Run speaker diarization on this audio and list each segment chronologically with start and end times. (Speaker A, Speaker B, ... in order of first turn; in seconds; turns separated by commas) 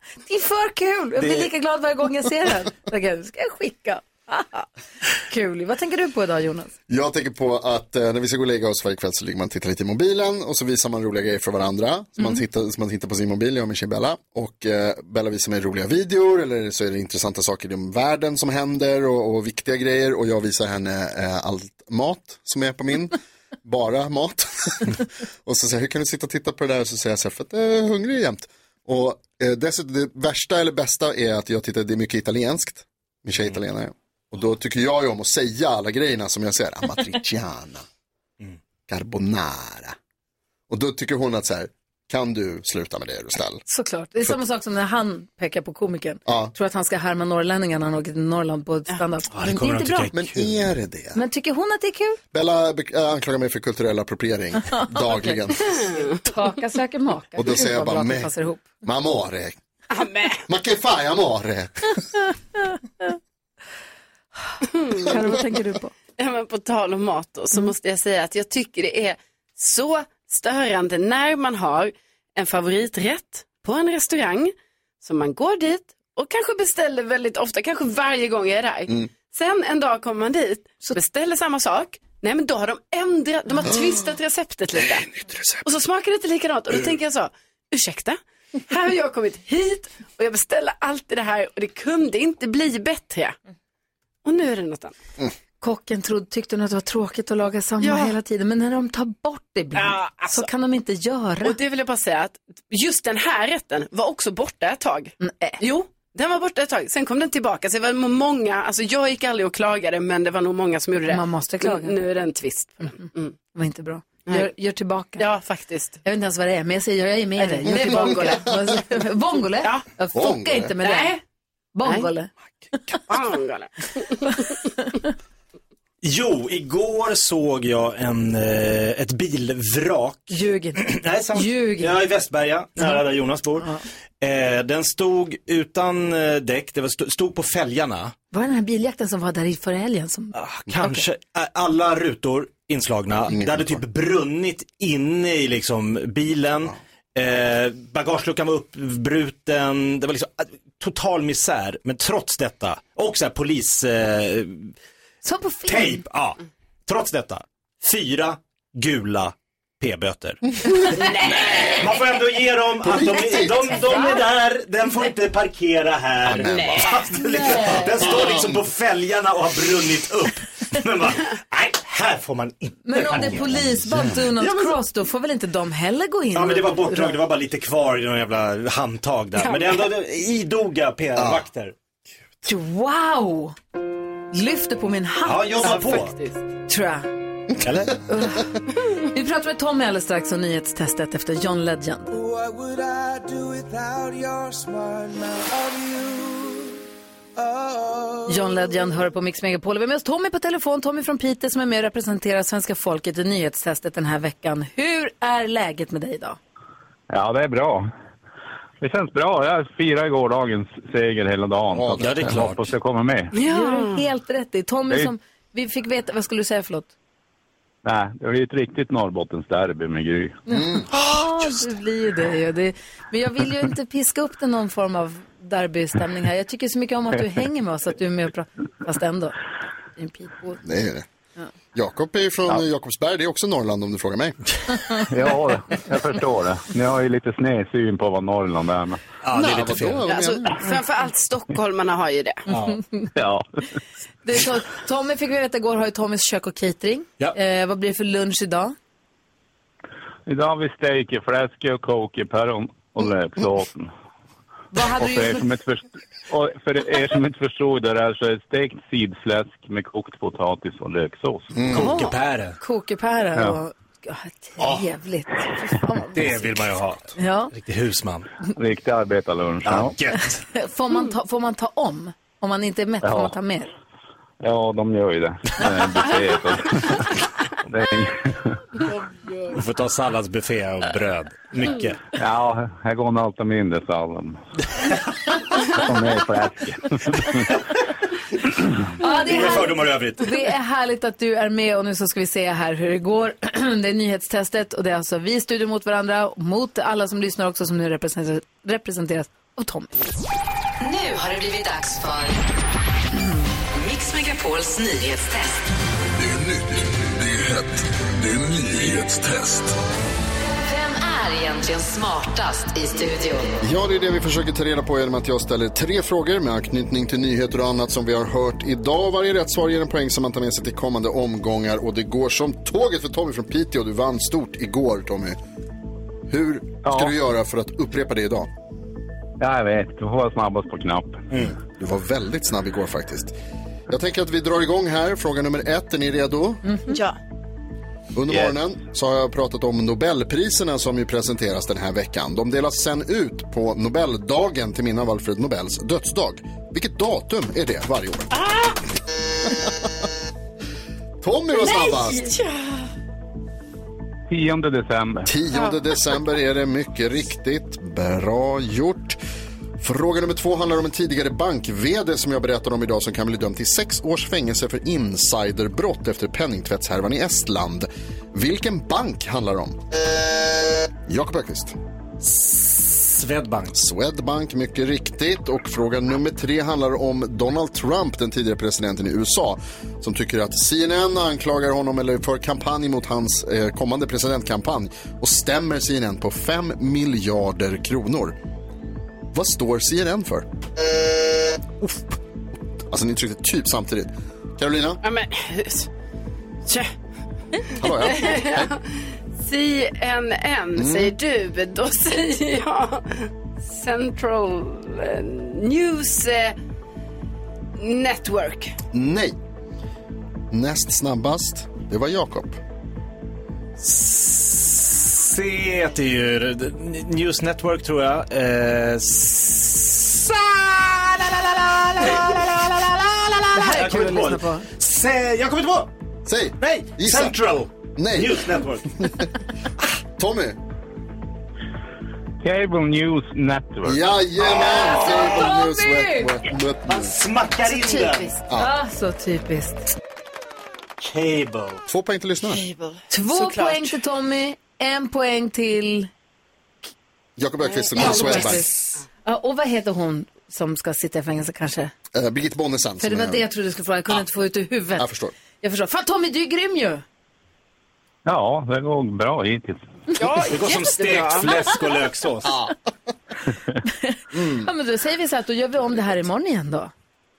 Speaker A: 0.3-4.7, Speaker B: 1.2-1.5, Speaker A: 5.3-6.7, Speaker C: 6.9-37.9, Speaker C: 38.9-40.0, Speaker C: 40.7-43.6, Speaker A: 43.7-50.1, Speaker C: 46.3-46.5, Speaker B: 49.3-50.6, Speaker C: 50.1-51.2, Speaker A: 51.1-52.2, Speaker C: 52.3-55.8, Speaker A: 54.8-58.7, Speaker C: 57.4-59.6, Speaker D: 59.9-60.4, Speaker C: 60.5-62.0, Speaker D: 64.8-65.1, Speaker A: 64.9-65.9, Speaker D: 66.2-85.1, Speaker C: 84.9-85.6, Speaker D: 85.6-93.4, Speaker D: 94.2-94.9, Speaker A: 95.6-101.6, Speaker D: 97.8-98.2, Speaker D: 99.8-100.5, Speaker D: 101.4-113.3, Speaker A: 105.2-105.6, Speaker A: 111.1-112.0, Speaker A: 113.5-115.2, Speaker D: 115.2-116.0, Speaker A: 116.0-121.2, Speaker D: 117.4-118.4, Speaker C: 120.1-120.7, Speaker D: 120.8-121.2, Speaker A: 121.8-122.3, Speaker C: 122.7-123.0, Speaker D: 123.1-124.6, Speaker B: 126.0-133.7, Speaker A: 130.3-132.0, Speaker B: 134.2-138.2, Speaker A: 138.3-141.0, Speaker B: 140.3-154.8, Speaker C: 143.3-143.8, Speaker A: 155.2-156.1, Speaker B: 155.7-161.1, Speaker D: 160.9-161.9, Speaker B: 161.7-173.7, Speaker C: 162.8-163.9, Speaker C: 166.2-167.0, Speaker D: 166.4-167.0, Speaker A: 167.4-167.8, Speaker C: 168.1-168.5, Speaker A: 172.9-177.2, Speaker C: 173.2-174.2, Speaker B: 174.4-174.7, Speaker B: 176.3-181.7, Speaker D: 179.4-179.8, Speaker C: 181.2-181.4, Speaker A: 182.5-183.6, Speaker A: 184.3-186.0, Speaker B: 185.2-186.1, Speaker D: 185.6-186.4, Speaker A: 186.7-187.1, Speaker B: 187.6-188.0, Speaker A: 188.1-192.2, Speaker E: 192.1-196.8, Speaker E: 197.4-198.7, Speaker A: 198.3-206.4, Speaker F: 207.1-207.9, Speaker F: 208.8-213.3, Speaker C: 211.7-212.4, Speaker B: 212.0-212.7, Speaker D: 213.3-214.0, Speaker A: 213.4-216.9, Speaker F: 217.8-220.4, Speaker A: 220.5-229.4, Speaker C: 220.5-220.9, Speaker A: 230.0-230.6, Speaker C: 230.6-231.1, Speaker C: 231.7-234.4, Speaker F: 235.1-239.0, Speaker B: 239.2-240.1, Speaker C: 239.3-240.5, Speaker D: 240.1-242.4, Speaker B: 242.5-242.8, Speaker F: 243.2-243.6, Speaker A: 244.2-248.8, Speaker F: 250.3-253.9, Speaker A: 254.7-255.4, Speaker F: 255.0-261.6, Speaker C: 261.5-261.9, Speaker B: 261.7-262.6, Speaker A: 261.7-266.5, Speaker B: 266.1-268.3, Speaker A: 267.2-267.5, Speaker F: 268.5-270.0, Speaker B: 269.6-270.4, Speaker A: 270.5-273.7, Speaker F: 273.0-273.4, Speaker F: 274.4-278.5, Speaker B: 279.5-282.0, Speaker F: 282.1-284.4, Speaker F: 285.6-287.5, Speaker B: 289.0-290.3, Speaker A: 289.0-299.9, Speaker G: 300.8-302.4, Speaker A: 303.1-303.4, Speaker G: 303.7-305.7, Speaker E: 306.2-309.8, Speaker G: 310.6-313.6, Speaker C: 313.6-325.4, Speaker C: 326.3-328.5, Speaker F: 326.9-327.1, Speaker F: 329.4-331.2, Speaker C: 331.6-333.3, Speaker C: 333.9-336.6, Speaker A: 336.6-337.0, Speaker D: 336.9-337.2, Speaker C: 338.1-348.4, Speaker F: 338.3-338.6, Speaker D: 348.3-348.8, Speaker C: 351.2-352.3, Speaker D: 351.6-352.9, Speaker F: 354.3-355.3, Speaker C: 355.3-359.2, Speaker D: 355.5-356.0, Speaker C: 359.8-369.8, Speaker C: 371.1-371.8, Speaker B: 372.2-373.8, Speaker C: 373.7-388.4, Speaker C: 389.3-390.5, Speaker C: 392.9-395.0, Speaker D: 395.0-395.9, Speaker C: 397.8-398.8, Speaker D: 398.0-398.8, Speaker D: 399.4-406.6, Speaker C: 400.8-401.1, Speaker D: 407.8-408.8, Speaker C: 408.9-409.4, Speaker C: 410.5-412.6, Speaker B: 413.8-425.9, Speaker A: 423.5-424.7, Speaker C: 426.2-427.4, Speaker B: 426.6-429.3, Speaker C: 428.0-429.2, Speaker C: 430.2-430.6, Speaker F: 432.4-434.0, Speaker C: 433.8-437.2, Speaker B: 434.4-435.3, Speaker A: 434.6-436.4, Speaker B: 436.9-438.3, Speaker D: 437.6-438.4, Speaker A: 438.6-439.8, Speaker B: 441.0-441.8, Speaker C: 441.9-442.6, Speaker D: 442.4-444.0, Speaker A: 443.1-446.1, Speaker C: 447.4-448.7, Speaker D: 447.6-448.6, Speaker A: 448.0-448.7, Speaker A: 449.2-451.9, Speaker C: 452.1-453.4, Speaker A: 453.0-455.1, Speaker C: 455.0-455.3, Speaker A: 455.6-457.0, Speaker F: 458.3-459.8, Speaker D: 460.2-461.7, Speaker B: 460.5-462.5, Speaker C: 462.4-462.7, Speaker A: 463.9-466.9, Speaker C: 464.3-464.7